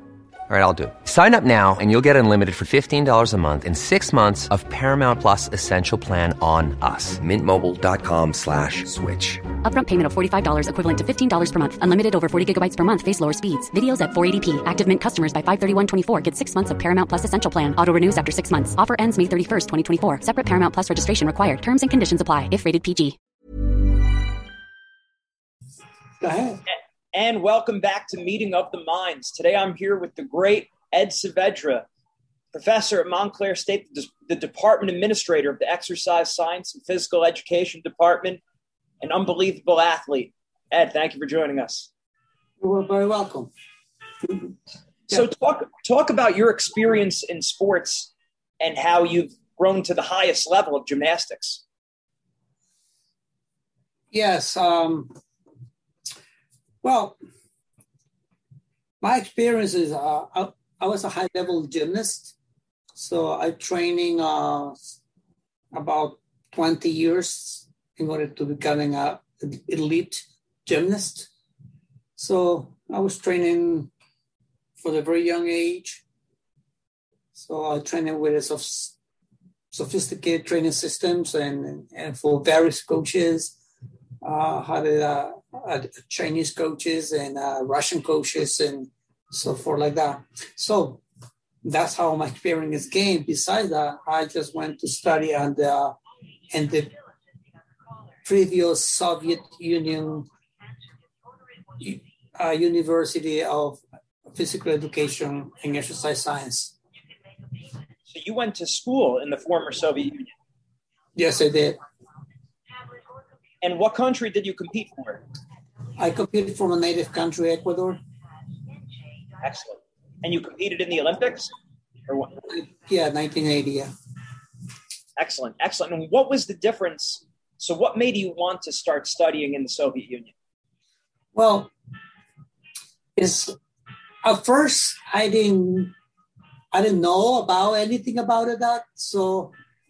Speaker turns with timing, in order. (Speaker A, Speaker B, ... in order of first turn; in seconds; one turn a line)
Speaker A: 0.5-9.5
Speaker B: 9.6-23.2
Speaker C: 26.2-26.6
Speaker D: 27.1-31.8
Speaker D: 32.5-38.4
Speaker D: 39.0-41.9
Speaker C: 42.6-43.5
Speaker C: 44.2-44.5
Speaker D: 45.1-51.6
Speaker C: 54.1-55.1
Speaker C: 56.8-57.2
Speaker C: 59.0-62.4
Speaker C: 62.9-64.9
Speaker C: 65.7-71.3
Speaker C: 72.2-73.9
Speaker C: 74.8-76.0
Speaker C: 77.3-78.9
Speaker C: 79.7-83.5
Speaker C: 84.2-91.0
Speaker C: 91.6-95.9
Speaker C: 96.5-96.9
Speaker C: 98.2-100.3
Speaker C: 101.8-106.7
Speaker D: 108.1-110.3
Speaker C: 111.2-111.8
Speaker D: 113.6-115.2
Speaker C: 116.0-118.0
Speaker D: 119.4-121.5
Speaker D: 122.1-122.4
Speaker C: 122.5-123.9
Speaker D: 125.2-130.3
Speaker C: 131.3-131.7
Speaker C: 133.2-133.6
Speaker C: 134.2-135.9
Speaker C: 136.7-139.5